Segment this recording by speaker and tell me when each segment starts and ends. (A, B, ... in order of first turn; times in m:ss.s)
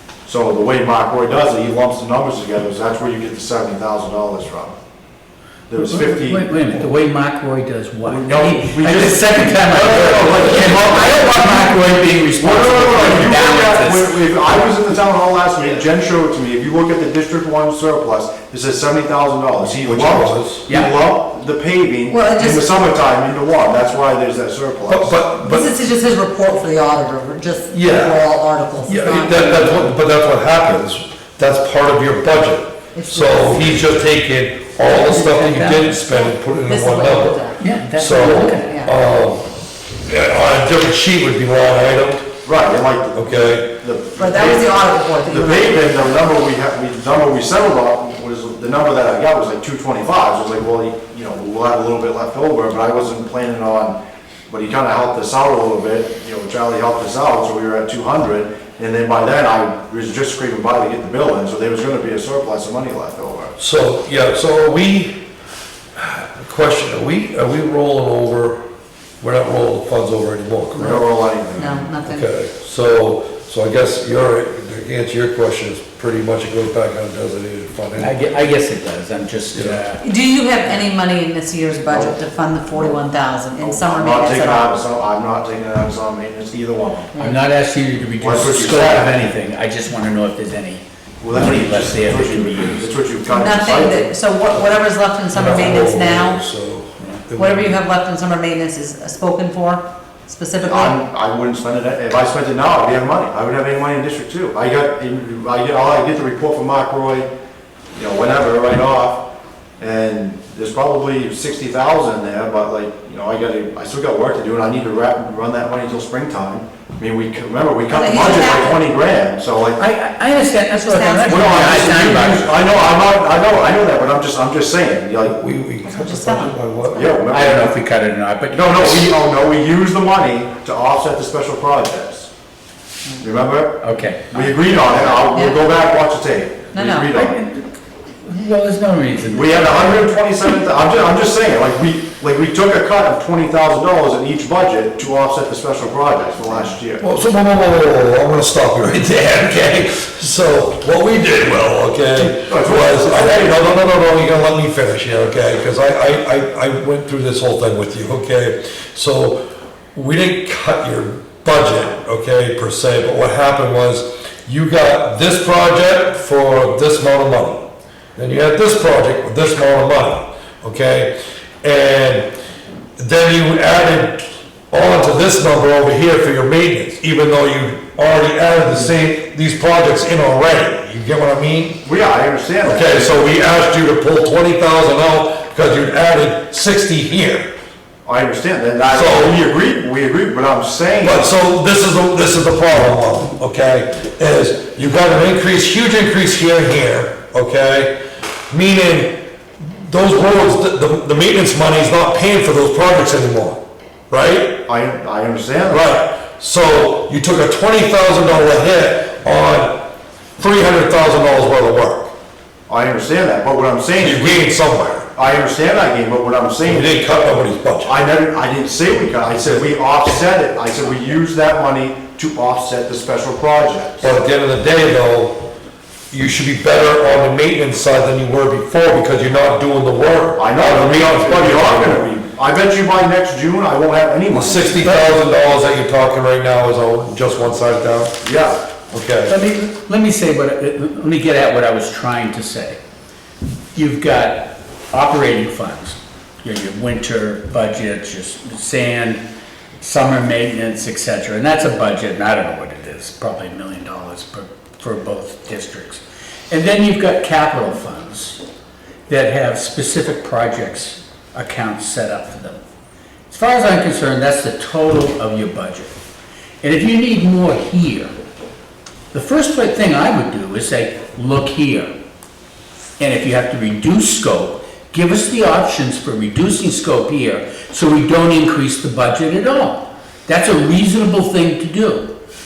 0:00.2-0:04.7 A
0:05.7-0:06.4 A
0:05.8-0:14.2 B
0:08.0-0:11.6 A
0:12.3-0:25.2 A
0:19.6-0:20.6 C
0:20.7-0:20.9 B
0:22.1-0:22.8 D
0:24.9-0:25.7 C
0:25.4-0:29.9 D
0:27.7-0:28.3 C
0:28.8-0:39.5 C
0:32.9-0:33.7 D
0:34.8-0:35.9 B
0:35.9-0:37.6 D
0:37.6-0:38.7 B
0:38.3-0:38.9 D
0:40.0-0:42.3 C
0:42.4-0:54.0 A
0:43.1-0:43.7 C
0:44.2-0:46.2 D
0:54.5-1:03.6 A
1:03.6-1:05.2 C
1:06.0-1:08.6 C
1:09.2-1:11.0 C
1:10.7-1:11.9 A
1:11.5-1:12.2 D
1:12.0-1:18.2 C
1:18.0-1:20.0 B
1:19.5-1:19.8 C
1:20.0-1:24.7 D
1:21.8-1:23.0 A
1:23.6-1:27.1 A
1:27.1-1:27.4 D
1:27.2-1:32.9 B
1:28.2-1:29.3 A
1:31.2-1:34.1 A
1:33.3-1:36.4 D
1:35.3-1:37.8 C
1:37.4-1:41.0 D
1:40.6-1:47.3 A
1:47.9-1:49.3 A
1:49.8-1:59.8 A
1:57.9-1:58.8 D
1:59.8-2:03.0 B
2:00.9-2:02.0 D
2:01.2-2:05.4 A
2:05.2-2:07.1 C
2:05.8-2:06.5 D
2:06.9-2:07.7 A
2:07.3-2:09.1 B
2:08.5-2:12.3 A
2:13.2-2:17.4 A
2:13.8-2:15.2 B
2:15.3-2:15.7 D
2:16.7-2:17.1 D
2:17.1-2:17.7 B
2:18.2-2:20.1 B
2:19.3-2:27.1 A
2:27.0-2:52.3 C
2:32.1-2:33.8 A
2:53.0-3:01.8 C
3:01.8-3:03.2 A
3:02.6-3:07.5 C
3:08.0-3:11.3 A
3:08.9-3:09.4 C
3:11.0-3:18.0 C
3:18.5-3:24.6 C
3:24.6-3:25.8 A
3:25.7-3:32.1 C
3:32.7-3:34.5 A
3:34.0-3:35.1 C
3:35.1-3:37.0 A
3:36.6-3:38.0 C
3:37.8-3:44.1 A
3:39.4-3:39.6 C
3:44.0-3:45.4 C
3:46.1-3:52.0 C
3:50.3-3:54.8 A
3:54.3-3:58.2 C
3:54.8-3:55.3 B
3:58.2-3:58.6 A
3:58.9-3:59.3 C
3:59.3-4:02.8 B
4:03.7-4:09.2 B
4:09.8-4:18.4 B
4:19.1-4:22.6 B
4:23.3-4:25.9 B
4:26.6-4:28.1 B
4:29.1-4:31.9 B
4:33.0-4:42.1 B